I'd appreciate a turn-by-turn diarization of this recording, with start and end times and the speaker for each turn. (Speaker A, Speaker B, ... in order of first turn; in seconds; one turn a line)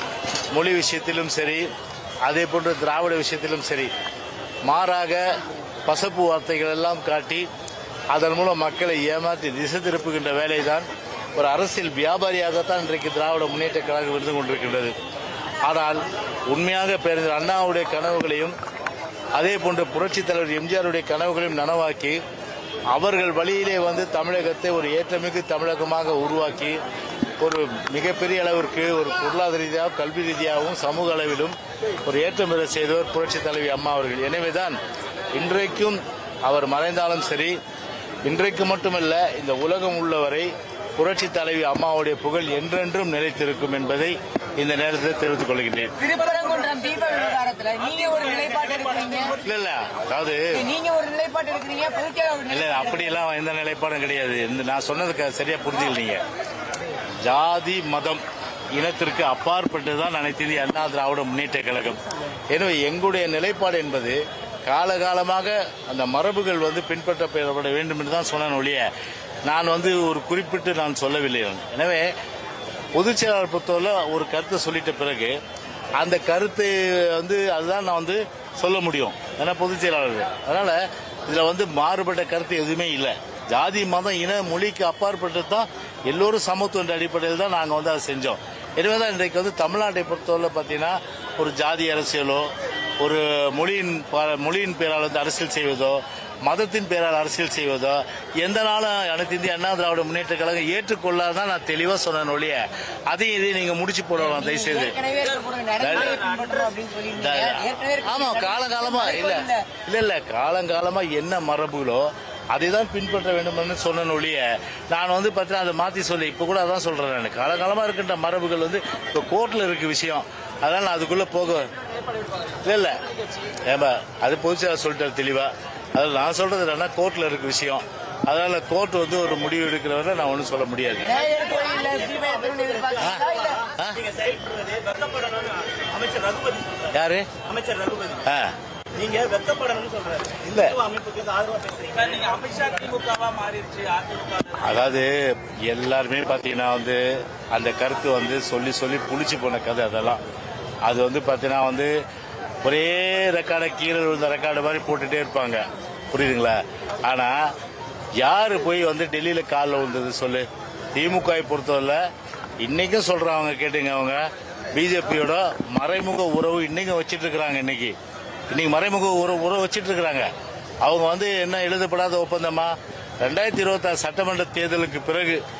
Speaker A: 0.5-1.7
Speaker A: 2.2-3.9
Speaker A: 4.7-7.5
Speaker A: 8.1-14.9
Speaker A: 15.7-18.6
Speaker A: 19.3-22.2
Speaker A: 22.9-26.8
Speaker A: 27.4-34.8
Speaker A: 35.3-37.6
Speaker A: 38.2-46.0
Speaker B: 46.0-49.4
Speaker A: 49.4-50.6
Speaker B: 50.5-53.1
Speaker A: 52.5-56.2
Speaker A: 57.2-68.9
Speaker A: 69.5-72.1
Speaker A: 72.9-75.4
Speaker A: 76.0-105.0
Speaker B: 104.2-109.7
Speaker A: 105.8-106.2
Speaker A: 107.2-121.7
Speaker A: 122.6-131.2
Speaker B: 131.0-133.7
Speaker A: 133.0-134.1
Speaker C: 134.1-136.8
Speaker A: 136.8-137.3
Speaker C: 137.5-138.2
Speaker A: 138.2-138.6
Speaker C: 138.9-144.4
Speaker A: 140.3-140.8
Speaker A: 144.5-150.2
Speaker A: 150.8-151.9
Speaker A: 152.6-157.5
Speaker A: 158.2-162.0
Speaker A: 162.6-167.9
Speaker A: 168.5-170.3
Speaker A: 170.8-175.4